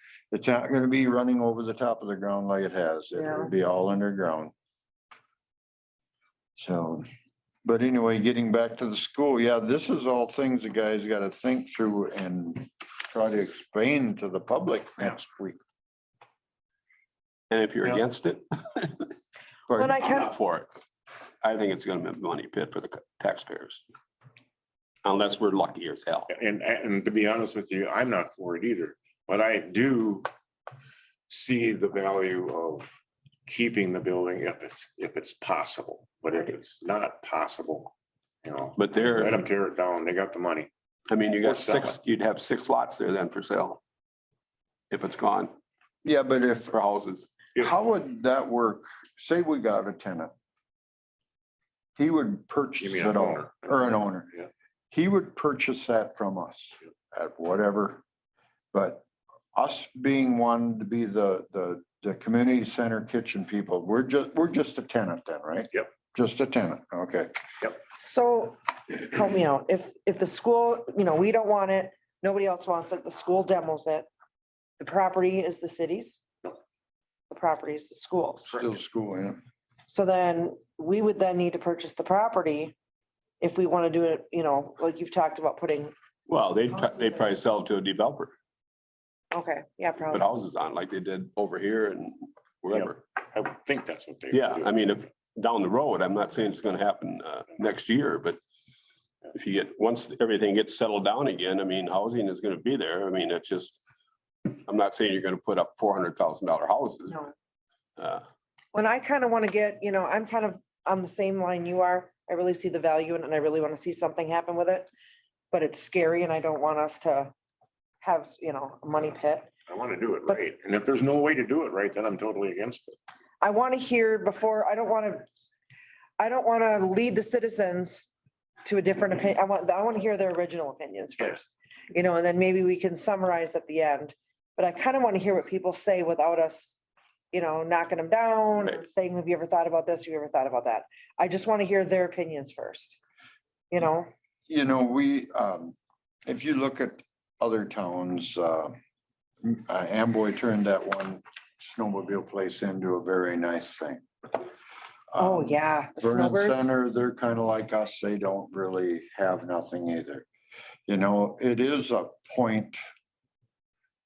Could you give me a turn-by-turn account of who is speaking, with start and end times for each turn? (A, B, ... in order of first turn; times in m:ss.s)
0:00.3-0:04.5 A
0:03.1-0:03.5 B
0:06.6-0:07.0 A
0:07.6-0:15.6 A
0:17.5-0:19.1 C
0:19.7-0:20.0 A
0:19.8-0:20.3 B
0:20.0-0:20.7 C
0:21.4-0:23.8 C
0:25.0-0:26.3 C
0:26.3-0:30.3 D
0:31.3-0:32.9 D
0:33.4-0:40.7 D
0:38.8-0:39.4 C
0:41.1-0:43.8 C
0:41.4-0:42.0 D
0:44.9-0:45.5 C
0:46.0-0:46.8 A
0:46.7-0:47.4 C
0:47.6-0:50.3 A
0:52.0-0:54.3 A
0:52.8-0:54.5 D
0:54.9-0:58.0 A
0:58.7-1:07.3 A
1:07.9-1:14.1 B
1:14.8-1:16.2 B
1:17.3-1:18.5 B
1:18.5-1:18.7 D
1:18.5-1:19.4 A
1:19.9-1:22.7 B
1:23.4-1:25.9 B
1:26.3-1:28.3 C
1:26.7-1:27.3 B
1:29.3-1:30.3 B
1:30.1-1:33.0 C
1:32.7-1:35.0 D
1:34.3-1:38.4 C
1:39.3-1:43.8 C
1:44.4-1:47.2 C
1:48.0-1:48.2 C
1:48.7-1:54.9 B
1:55.5-1:57.3 B
1:58.0-1:59.5 B
1:59.7-2:03.0 D
2:03.4-2:05.2 B
2:06.2-2:08.1 B
2:08.6-2:16.8 B
2:17.3-2:23.0 B
2:23.7-2:24.1 B
2:24.5-2:25.7 A
2:26.2-2:28.7 A
2:29.4-2:34.0 A
2:35.1-2:40.2 A
2:35.2-2:36.7 B
2:40.9-2:42.8 A